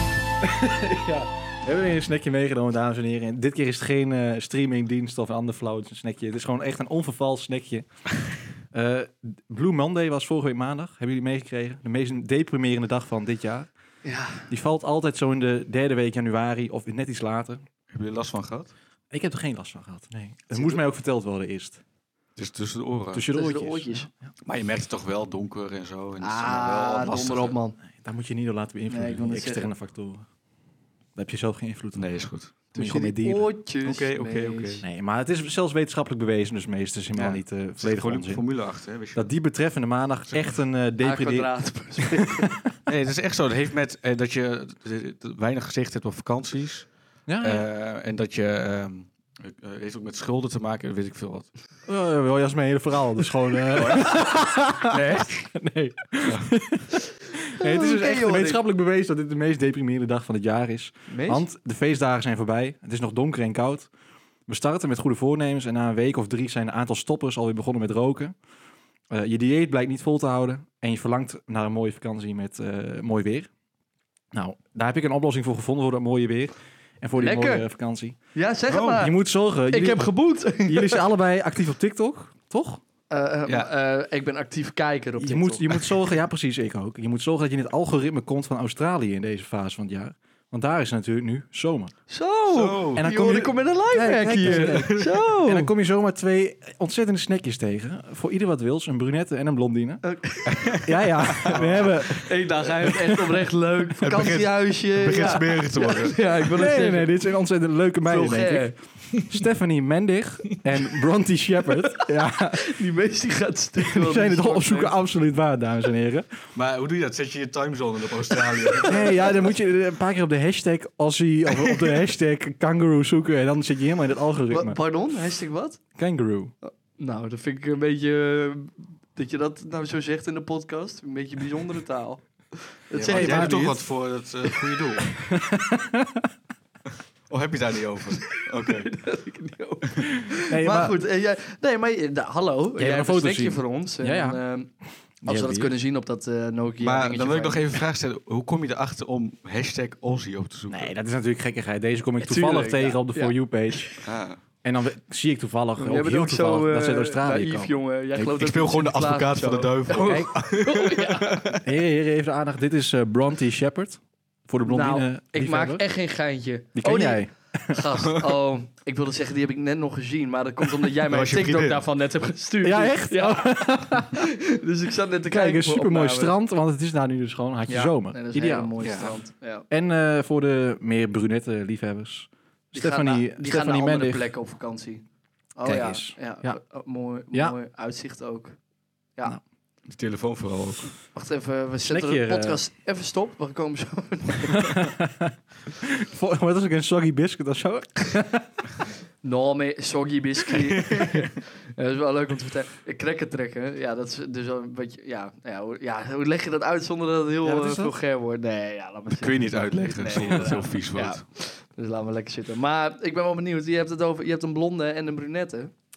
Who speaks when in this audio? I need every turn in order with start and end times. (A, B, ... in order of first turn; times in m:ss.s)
0:00.4-0:07.8 A
0:08.7-0:13.7 A
0:14.0-0:14.5 B
0:14.5-0:17.6 A
0:17.9-0:18.7 C
0:19.1-0:21.8 A
0:20.5-0:20.8 B
0:22.4-0:23.2 C
0:23.1-0:24.3 A
0:23.3-0:24.1 B
0:24.4-0:27.5 C
0:26.2-0:27.8 B
0:27.8-0:30.2 A
0:28.9-0:29.7 B
0:31.2-0:33.5 A
0:32.0-0:32.5 C
0:32.7-0:34.8 B
0:33.8-0:34.8 C
0:34.8-0:38.5 A
0:37.1-0:39.3 C
0:39.1-0:42.6 A
0:40.3-0:40.6 C
0:41.0-0:42.6 B
0:42.9-0:51.5 C
0:47.3-0:47.6 A
0:51.9-1:03.9 A
0:53.7-0:54.2 C
0:54.8-0:55.5 C
0:57.6-0:58.6 B
1:01.1-1:01.4 B
1:04.5-1:08.3 A
1:09.1-1:13.5 A
1:14.3-1:18.2 A
1:17.2-1:17.6 B
1:18.3-1:19.1 B
1:18.7-1:19.0 C
1:18.7-1:22.8 A
1:19.7-1:21.0 B
1:23.1-1:25.9 B
1:25.2-1:32.0 A
1:32.1-1:35.7 B
1:32.5-1:33.0 C
1:33.0-1:40.0 A
1:34.4-1:35.1 C
1:40.0-1:40.8 B
1:40.4-1:41.9 C
1:40.8-1:43.3 A
1:41.5-1:47.1 B
1:44.0-1:46.2 C
1:46.5-1:52.7 A
1:48.0-1:48.7 B
1:52.6-1:54.9 B
1:53.9-1:56.4 A
1:56.5-1:59.3 C
1:58.8-1:59.3 B
1:58.8-2:04.8 A
2:01.5-2:02.1 C
2:04.5-2:05.8 B
2:05.9-2:06.5 A
2:06.6-2:13.8 B
2:12.9-2:15.2 C
2:13.0-2:13.8 A
2:15.3-2:16.2 A
2:17.3-2:18.9 C
2:18.6-2:24.7 B
2:20.4-2:21.0 A
2:22.8-2:24.4 A
2:25.2-2:25.7 A
2:25.2-2:27.7 B
2:26.8-2:30.9 C
2:30.7-2:34.0 A
2:32.2-2:33.3 B
2:34.0-2:34.4 C
2:34.6-2:37.7 A
2:35.8-2:41.6 B
2:38.3-2:41.6 C
2:40.0-2:40.3 A
2:41.6-2:45.8 A
2:44.6-2:56.3 B
2:46.8-2:47.8 A
2:51.1-2:51.8 C
2:52.6-2:54.2 A
2:55.2-2:58.7 A
2:57.7-2:59.6 B
2:58.8-2:59.1 C
2:59.7-3:04.3 A
3:02.7-3:08.6 B
3:05.6-3:06.6 A
3:09.8-3:10.9 C
3:11.1-3:14.9 B
3:11.8-3:12.6 A
3:14.5-3:18.5 A
3:19.2-3:35.7 B
3:27.4-3:27.9 A
3:29.1-3:31.2 C
3:30.1-3:30.5 A